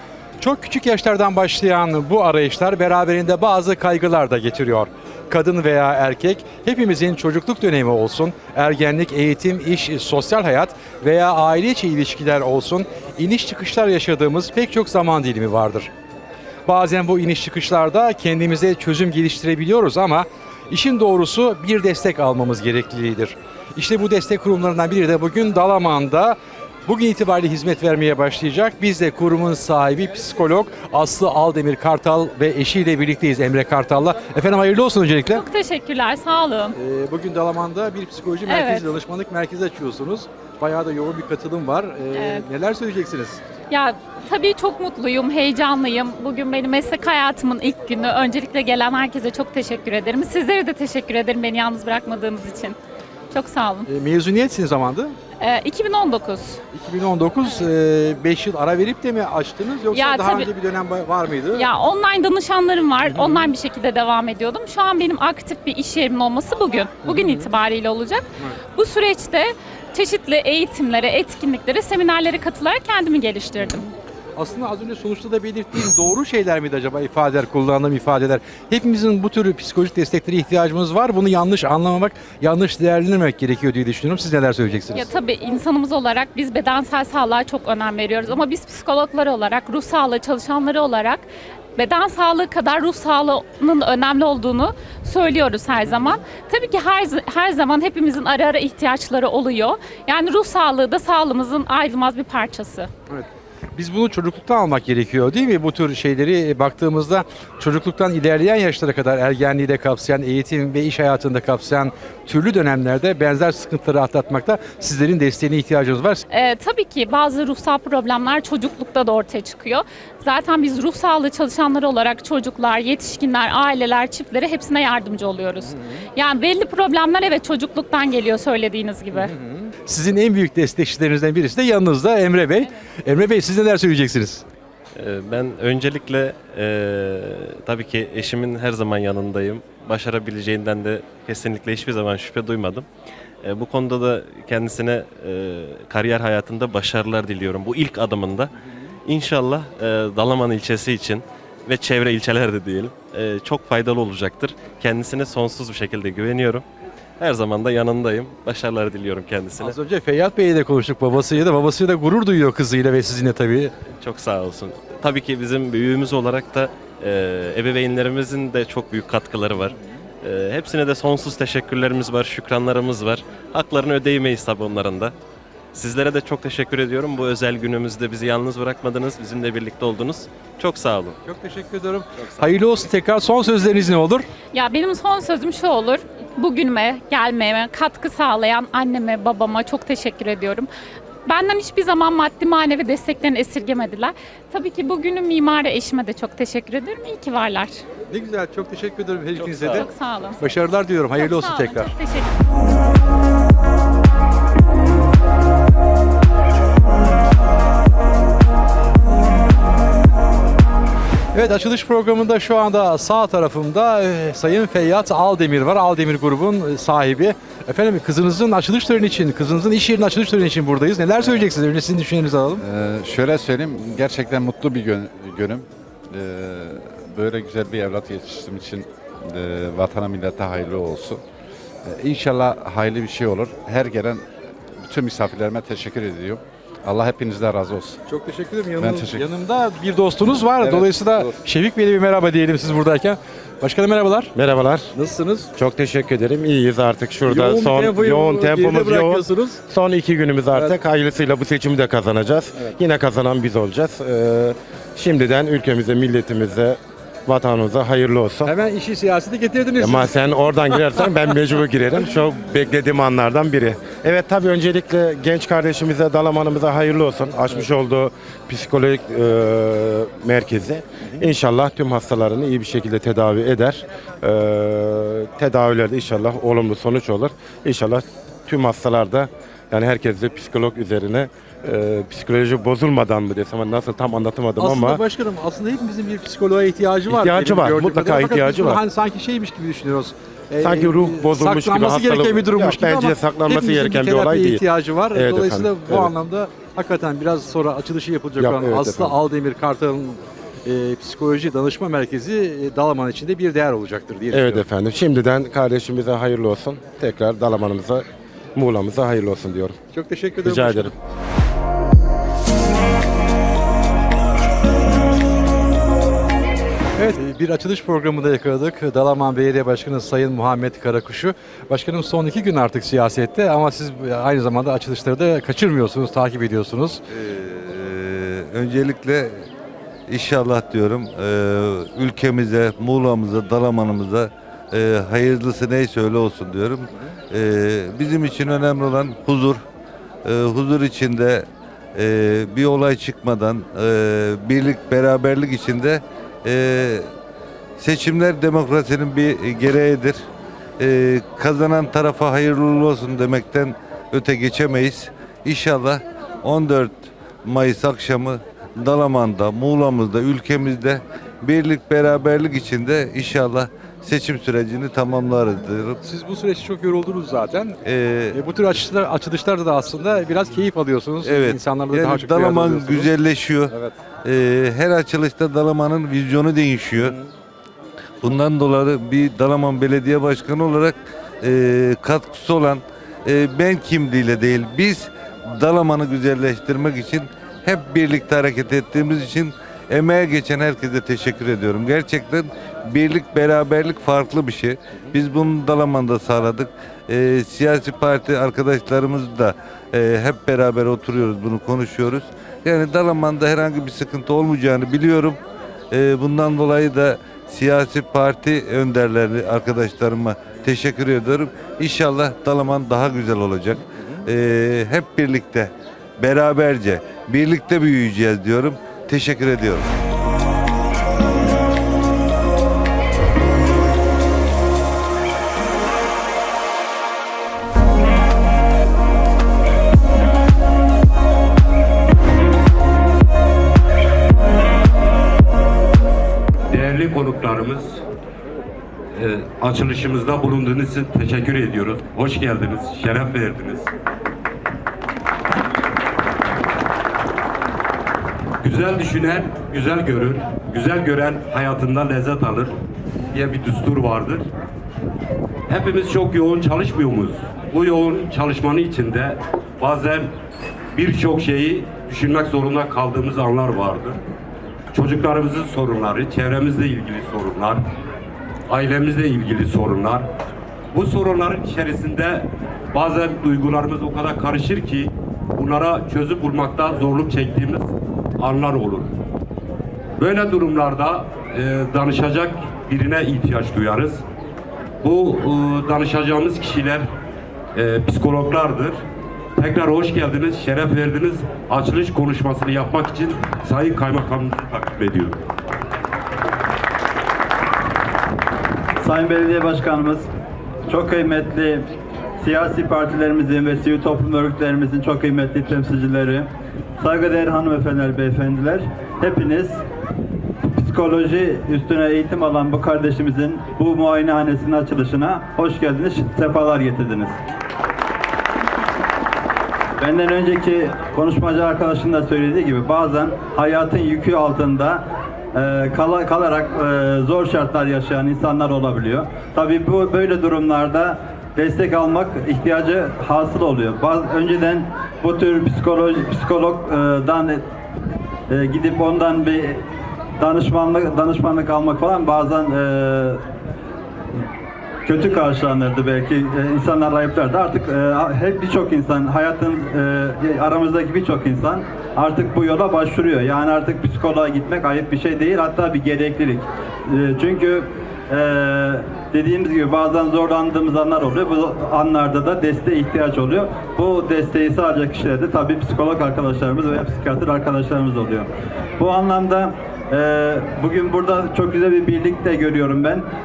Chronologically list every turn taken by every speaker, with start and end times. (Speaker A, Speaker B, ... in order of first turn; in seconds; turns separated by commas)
Speaker A: 0.4-15.9, Speaker A: 16.7-35.4, Speaker B: 35.3-36.8, Speaker A: 36.8-43.4, Speaker B: 38.5-38.9, Speaker B: 42.1-42.5, Speaker B: 43.7-52.8, Speaker B: 53.3-53.9, Speaker A: 53.9-55.2, Speaker B: 55.4-56.6, Speaker A: 56.7-61.6, Speaker B: 59.9-60.5, Speaker B: 61.5-73.9, Speaker A: 63.1-63.5, Speaker A: 67.0-67.5, Speaker A: 74.4-85.1, Speaker B: 84.9-91.2, Speaker B: 91.8-102.9, Speaker A: 95.9-96.2, Speaker A: 103.1-116.2, Speaker B: 116.3-129.3, Speaker A: 125.6-126.0, Speaker A: 129.1-134.4, Speaker C: 135.0-142.9, Speaker C: 143.4-148.5, Speaker C: 149.1-156.7, Speaker C: 157.2-159.8, Speaker A: 159.6-163.7, Speaker C: 164.0-175.1, Speaker C: 175.7-181.2, Speaker A: 181.2-184.3, Speaker C: 182.2-182.5, Speaker B: 184.5-190.7, Speaker B: 191.3-197.8, Speaker A: 198.1-199.9, Speaker C: 199.4-199.9, Speaker B: 199.8-200.5, Speaker A: 200.4-201.9, Speaker B: 201.2-202.3, Speaker A: 211.3-222.6, Speaker D: 222.6-231.2, Speaker D: 231.8-234.3, Speaker D: 234.8-238.0, Speaker A: 238.1-244.3, Speaker D: 238.8-239.3, Speaker D: 240.6-241.3, Speaker E: 244.3-244.9, Speaker A: 244.9-245.5, Speaker E: 245.5-258.5, Speaker A: 247.3-249.6, Speaker A: 258.4-260.2, Speaker E: 259.8-285.0, Speaker A: 284.6-304.7, Speaker E: 287.1-288.8, Speaker E: 290.6-296.1, Speaker E: 298.4-299.2, Speaker E: 304.3-309.8, Speaker A: 309.9-310.9, Speaker E: 310.4-310.9, Speaker A: 317.0-327.0, Speaker F: 327.1-329.5, Speaker F: 330.1-339.6, Speaker F: 340.2-347.1, Speaker F: 347.8-350.2, Speaker F: 350.8-366.0, Speaker A: 366.0-367.8, Speaker F: 367.9-368.4, Speaker A: 368.3-373.1, Speaker F: 371.2-373.7, Speaker A: 373.7-373.9, Speaker F: 374.2-377.1, Speaker A: 377.0-377.3, Speaker F: 378.2-405.4, Speaker F: 405.9-419.9, Speaker G: 436.7-438.0, Speaker G: 439.1-443.9, Speaker G: 448.6-452.8, Speaker G: 453.3-454.5, Speaker G: 455.7-460.3, Speaker G: 460.9-464.2, Speaker G: 464.9-467.9, Speaker G: 468.7-470.3, Speaker G: 470.9-479.2, Speaker G: 480.2-484.2, Speaker G: 485.0-487.1, Speaker G: 487.8-489.0, Speaker G: 489.6-495.4, Speaker H: 499.0-500.3, Speaker H: 500.9-501.8, Speaker H: 502.4-506.4, Speaker H: 507.0-509.8, Speaker H: 510.7-517.3, Speaker H: 520.0-525.0, Speaker H: 525.6-537.6, Speaker H: 538.5-539.8, Speaker H: 540.4-543.4, Speaker H: 545.1-556.6, Speaker H: 557.2-568.5, Speaker H: 569.0-573.2